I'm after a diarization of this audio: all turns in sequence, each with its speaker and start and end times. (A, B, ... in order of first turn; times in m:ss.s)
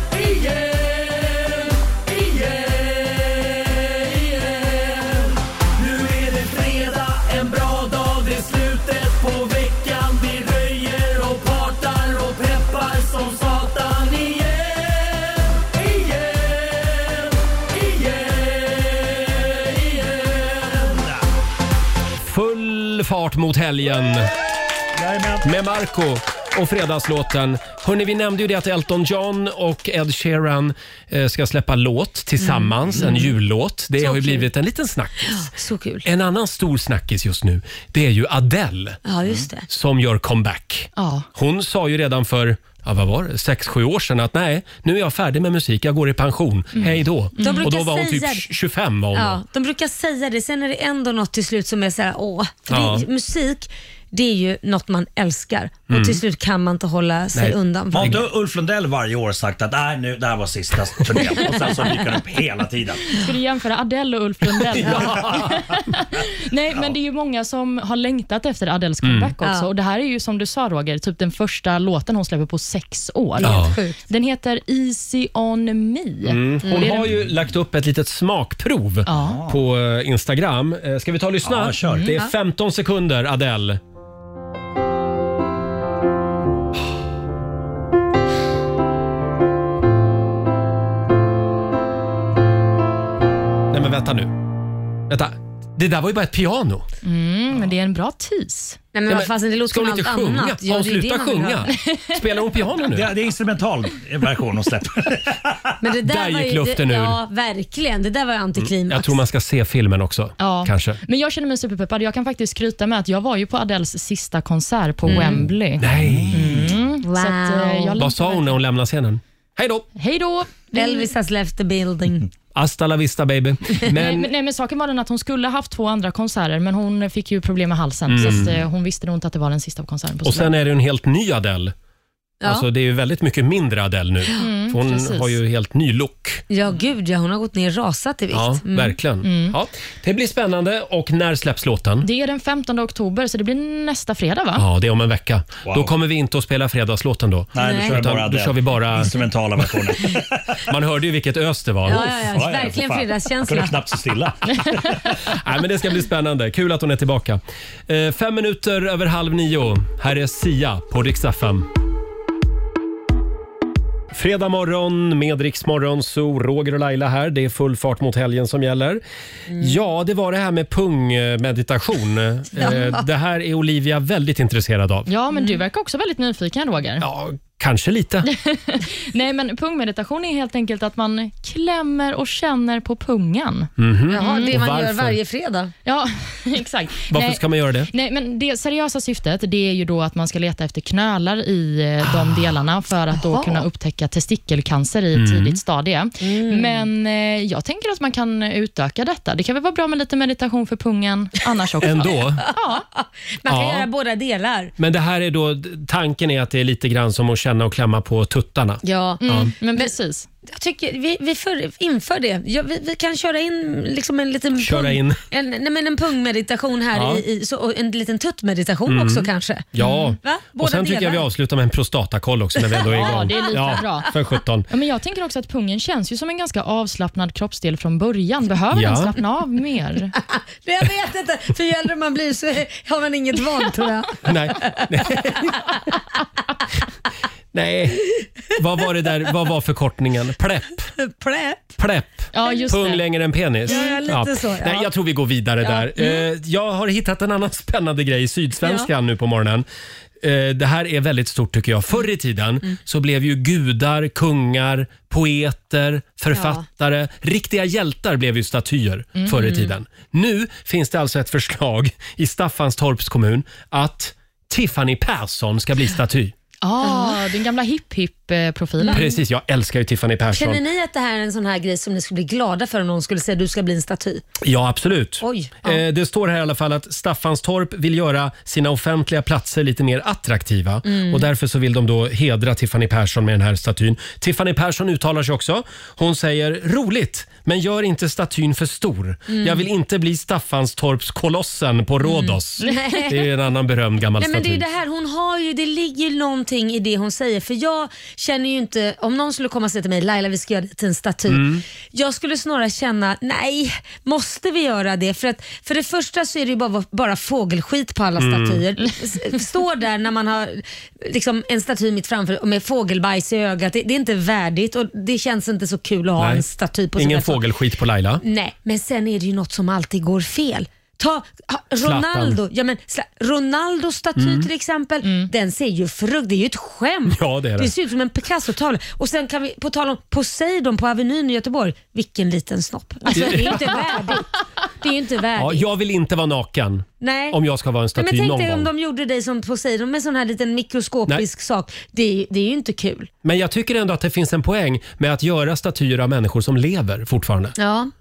0:00.2-0:05.2 A
0:05.8-0:14.8 A
0:17.8-0:18.2 A
0:20.8-0:21.2 B
0:22.2-0:24.3 A
0:24.9-0:25.5 B
0:25.4-0:35.5 A
0:32.4-0:33.3 C
0:34.0-0:34.5 C
0:35.2-0:36.0 C
0:36.0-0:39.0 A
0:39.0-0:39.7 C
0:39.7-0:49.4 A
0:41.0-0:41.3 D
0:46.8-0:47.6 D
0:47.4-0:48.4 C
0:49.1-0:58.2 C
0:52.7-0:53.0 A
0:55.9-0:56.2 A
0:57.3-0:58.2 A
0:57.9-1:03.2 B
1:03.1-1:17.1 D
1:04.8-1:05.5 B
1:04.9-1:05.2 A
1:09.0-1:09.3 A
1:09.4-1:09.7 C
1:13.4-1:14.0 C
1:13.4-1:13.8 A
1:16.2-1:23.8 A
1:16.6-1:17.0 C
1:19.0-1:19.4 D
1:19.1-1:19.6 B
1:21.4-1:22.1 B
1:33.7-1:34.4 A
1:35.1-1:36.9 A
1:37.0-1:38.8 D
1:38.9-1:41.7 C
1:39.1-1:43.1 A
1:42.9-1:45.6 B
1:45.8-1:49.2 C
1:46.0-1:47.2 A
1:48.6-1:51.0 A
1:50.4-1:58.6 D
1:55.0-1:55.5 C
1:55.8-1:56.6 A
1:55.9-1:56.8 B
1:57.0-1:58.0 C
1:58.0-1:59.9 A
2:00.0-2:01.1 D
2:00.7-2:02.3 C
2:02.5-2:04.3 A
2:03.9-2:10.5 D
2:08.1-2:08.6 A
2:10.2-2:11.7 A
2:12.4-2:16.4 A
2:14.4-2:15.4 D
2:16.5-2:19.0 C
2:18.3-2:22.1 A
2:19.2-2:19.6 D
2:22.0-2:24.6 D
2:24.6-2:29.7 A
2:25.6-2:25.9 B
2:27.6-2:30.6 B
2:27.6-2:28.0 C
2:30.7-2:32.1 A
2:31.9-2:33.8 C
2:31.9-2:35.2 B
2:35.3-2:41.7 A
2:44.1-2:49.0 A
2:49.6-2:55.1 A
2:52.6-2:53.0 C
2:55.1-2:57.0 D
2:57.0-2:58.3 A
2:58.2-3:04.5 D
3:03.8-3:05.2 A
3:04.1-3:05.7 C
3:05.8-3:22.8 D
3:07.1-3:07.9 A
3:13.1-3:13.7 C
3:15.1-3:15.6 A
3:16.2-3:16.9 C
3:21.8-3:22.4 A
3:22.0-3:24.7 C
3:23.4-3:23.9 A
3:24.8-3:29.5 A
3:28.8-3:29.9 C
3:29.2-3:30.3 D
3:30.4-3:41.2 C
3:34.6-3:35.2 A
3:36.9-3:37.2 A
3:38.9-3:44.7 A
3:39.8-3:40.1 D
3:42.6-3:44.0 C
3:42.9-3:44.1 D
3:44.7-3:50.1 D
3:48.7-3:49.1 A
3:50.2-3:55.4 C
3:54.2-3:55.7 A
3:57.5-4:00.9 A
4:01.0-4:01.8 C
4:01.8-4:09.6 A
4:02.3-4:03.0 D
4:03.7-4:04.0 D
4:03.7-4:04.9 C
4:05.6-4:06.2 C
4:08.6-4:08.9 C
4:10.2-4:26.3 A
4:16.3-4:16.6 C
4:19.2-4:19.7 D
4:26.6-4:29.1 D
4:26.8-4:27.2 C
4:28.8-4:29.1 C
4:28.9-4:30.6 A
4:30.3-4:34.2 C
4:34.4-4:54.6 A
4:35.2-4:35.8 C
4:40.8-4:41.3 C
4:49.3-4:49.6 C
4:52.0-4:53.2 C
4:54.2-5:17.4 C
5:01.3-5:01.6 A
5:08.2-5:08.6 A
5:16.2-5:16.4 A
5:17.0-5:18.2 A
5:18.2-5:34.3 C
5:21.8-5:22.4 A
5:24.2-5:24.5 A
5:25.0-5:25.3 D
5:27.1-5:27.7 A
5:33.1-5:33.9 D
5:33.1-5:33.7 A
5:34.8-5:35.7 C
5:35.4-5:38.7 A
5:37.0-5:37.4 C
5:38.0-5:43.1 C
5:43.2-5:47.6 A
5:47.6-5:47.9 C